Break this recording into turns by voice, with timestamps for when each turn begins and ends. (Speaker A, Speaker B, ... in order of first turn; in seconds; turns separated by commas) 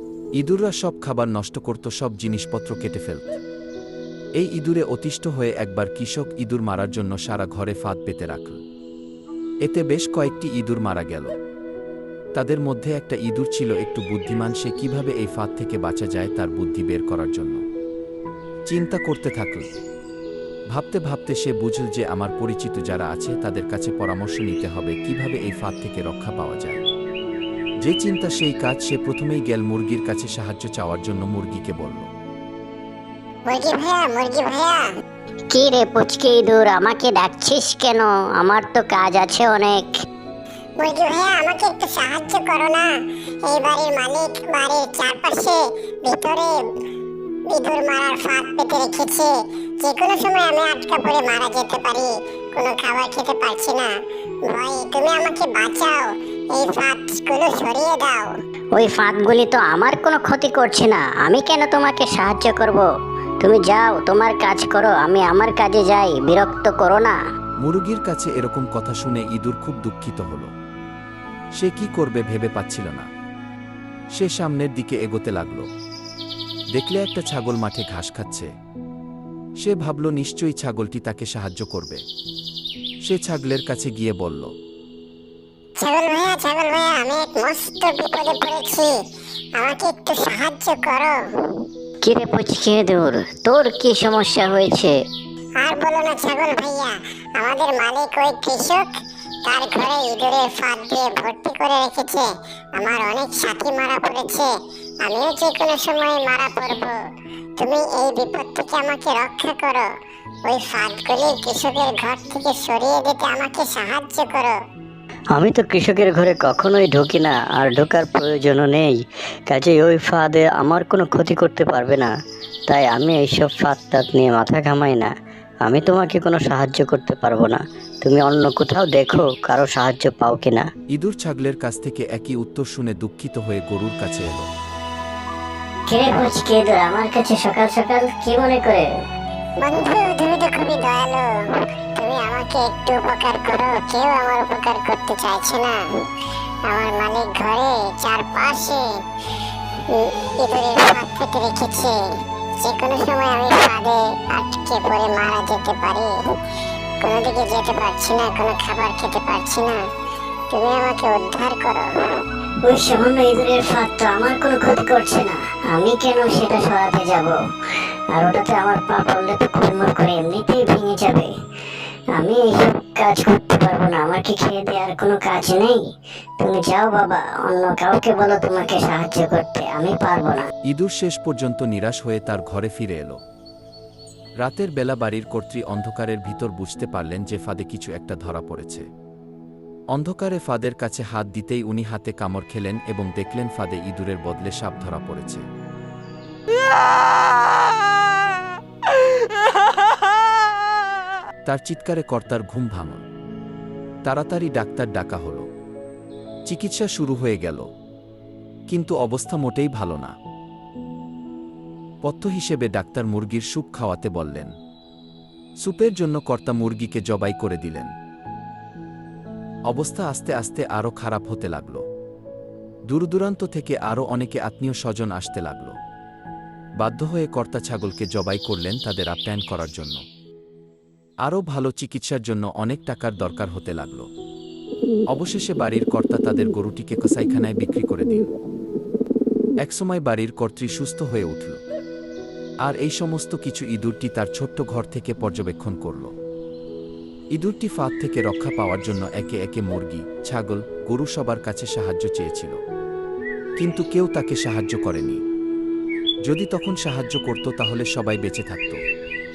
Speaker A: 0.4-3.4, Speaker A: 4.4-8.6, Speaker A: 9.6-11.3, Speaker A: 12.3-17.6, Speaker A: 18.7-19.7, Speaker A: 20.7-26.8, Speaker A: 27.8-32.1, Speaker B: 33.5-34.8, Speaker C: 35.5-39.9, Speaker B: 40.8-42.9, Speaker B: 43.4-46.6, Speaker B: 47.5-53.9, Speaker B: 54.5-58.4, Speaker C: 58.7-62.9, Speaker C: 63.4-67.2, Speaker A: 67.6-70.5, Speaker A: 71.6-73.1, Speaker A: 74.2-75.7, Speaker A: 76.7-78.5, Speaker A: 79.6-82.0, Speaker A: 83.0-84.5, Speaker B: 85.8-88.9, Speaker B: 89.6-91.6, Speaker C: 92.0-95.0, Speaker B: 95.6-98.9, Speaker B: 99.5-107.0, Speaker B: 107.6-109.9, Speaker B: 110.4-114.6, Speaker D: 115.3-122.1, Speaker D: 122.7-130.7, Speaker A: 130.9-134.5, Speaker C: 135.9-138.9, Speaker B: 139.6-145.8, Speaker B: 146.7-148.9, Speaker B: 149.9-156.2, Speaker B: 157.0-159.8, Speaker B: 160.5-161.9, Speaker C: 162.6-167.4, Speaker C: 168.1-171.3, Speaker C: 172.2-175.8, Speaker C: 176.4-180.5, Speaker A: 180.7-183.2, Speaker A: 184.4-188.9, Speaker A: 189.9-195.4, Speaker A: 201.4-203.0, Speaker A: 204.0-205.4, Speaker A: 206.5-207.7, Speaker A: 208.7-210.1, Speaker A: 212.0-214.5, Speaker A: 215.6-217.9, Speaker A: 219.7-221.8, Speaker A: 222.9-225.8, Speaker A: 226.8-230.0, Speaker A: 231.2-234.1, Speaker A: 235.1-238.2, Speaker A: 239.6-241.6, Speaker A: 242.6-246.1, Speaker A: 247.3-252.6, Speaker A: 253.6-255.2, Speaker A: 256.3-258.8